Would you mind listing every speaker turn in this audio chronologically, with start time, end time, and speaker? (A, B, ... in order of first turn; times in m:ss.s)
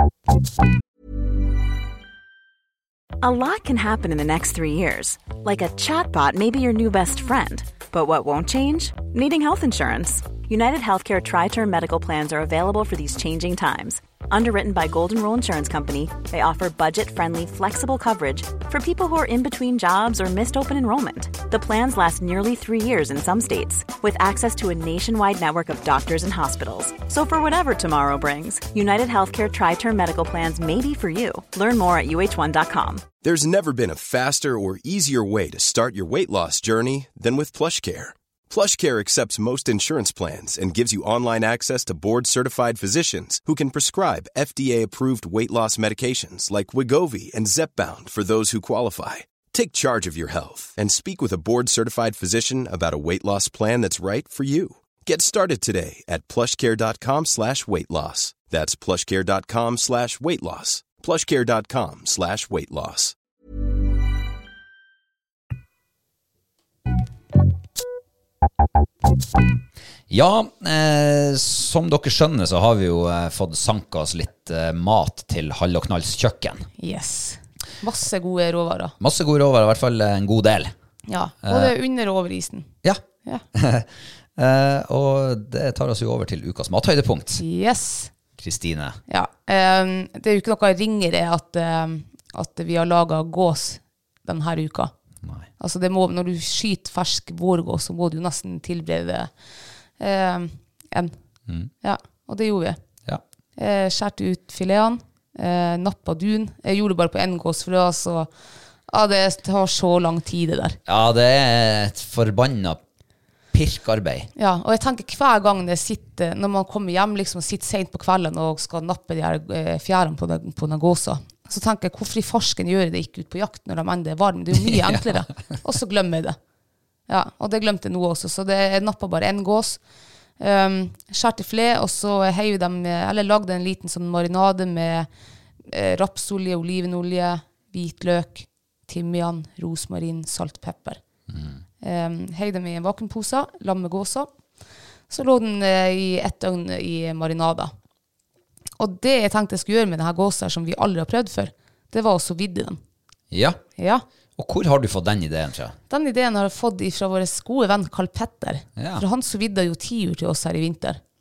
0:03.2-0:33.1 A
0:33.2-1:03.1 B
1:10.1-1:16.7 C
1:16.8-1:18.9 D
1:19.0-1:20.7 C
1:21.1-1:22.7 D
1:21.4-1:21.7 C
1:22.8-1:27.4 C
1:27.4-1:28.1 D
1:28.4-1:29.0 C
1:29.1-1:34.9 D
1:35.2-1:35.5 C
1:35.6-1:39.3 D
1:40.0-1:41.1 D
1:41.8-1:42.8 D
1:43.6-1:48.3 D
1:48.9-1:50.8 D
1:50.8-1:52.8 C
1:53.5-1:54.3 C
1:54.4-2:06.4 D
2:04.5-2:05.5 C
2:07.1-2:09.8 D
2:10.4-2:15.1 D
2:15.7-2:21.0 D
2:21.3-2:21.6 C
2:21.8-2:24.3 D
2:25.1-2:27.7 D
2:28.8-2:32.8 D
2:33.3-2:33.6 C
2:33.8-2:34.0 D
2:34.4-2:35.8 C
2:35.9-2:41.0 D
2:38.8-2:39.0 C